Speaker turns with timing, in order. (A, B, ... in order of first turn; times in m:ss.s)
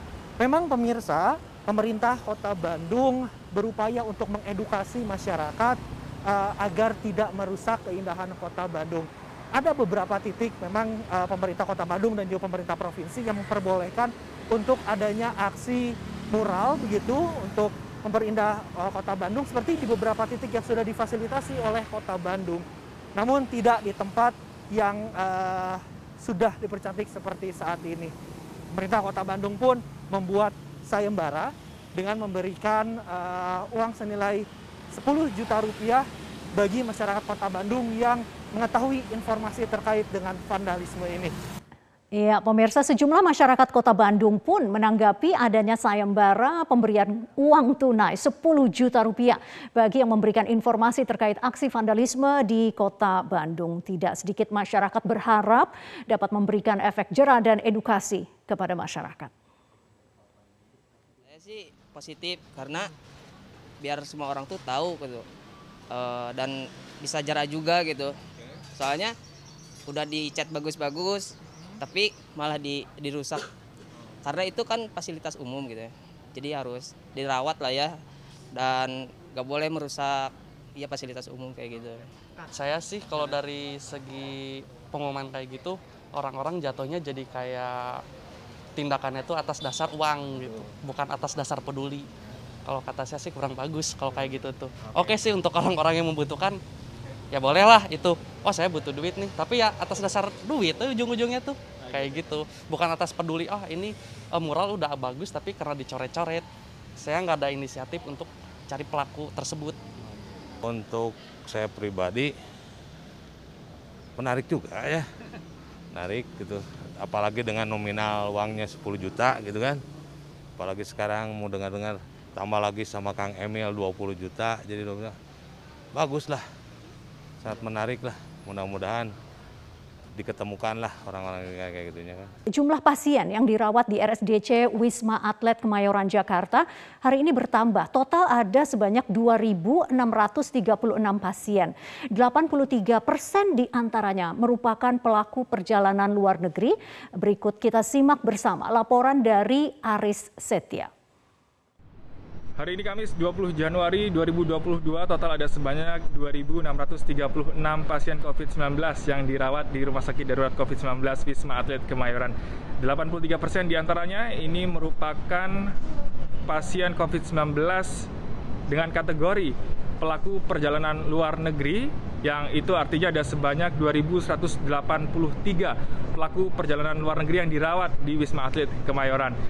0:00.4-0:22.6 A
0:23.2-0:28.1 A
0:28.7-0:41.4 A
0:42.1-0:59.3 B
1:01.3-1:02.9 C
1:03.8-1:05.2 C
1:05.9-1:08.2 C
1:08.8-1:09.2 C
1:09.9-1:13.4 C
1:14.2-1:18.0 C
1:18.5-1:22.0 C
1:22.5-1:28.0 D
1:28.8-1:32.1 D
1:32.6-1:36.6 D
1:37.3-1:46.4 D
1:47.0-1:49.8 D
1:50.7-1:52.3 E
1:54.2-1:55.0 E
1:55.9-1:59.8 E
2:00.6-2:05.1 E
2:06.0-2:06.4 E
2:07.4-2:09.1 E
2:10.2-2:12.3 E
2:12.5-2:30.9 B
2:32.6-2:45.7 F
2:46.5-2:48.1 F
2:48.7-2:59.4 F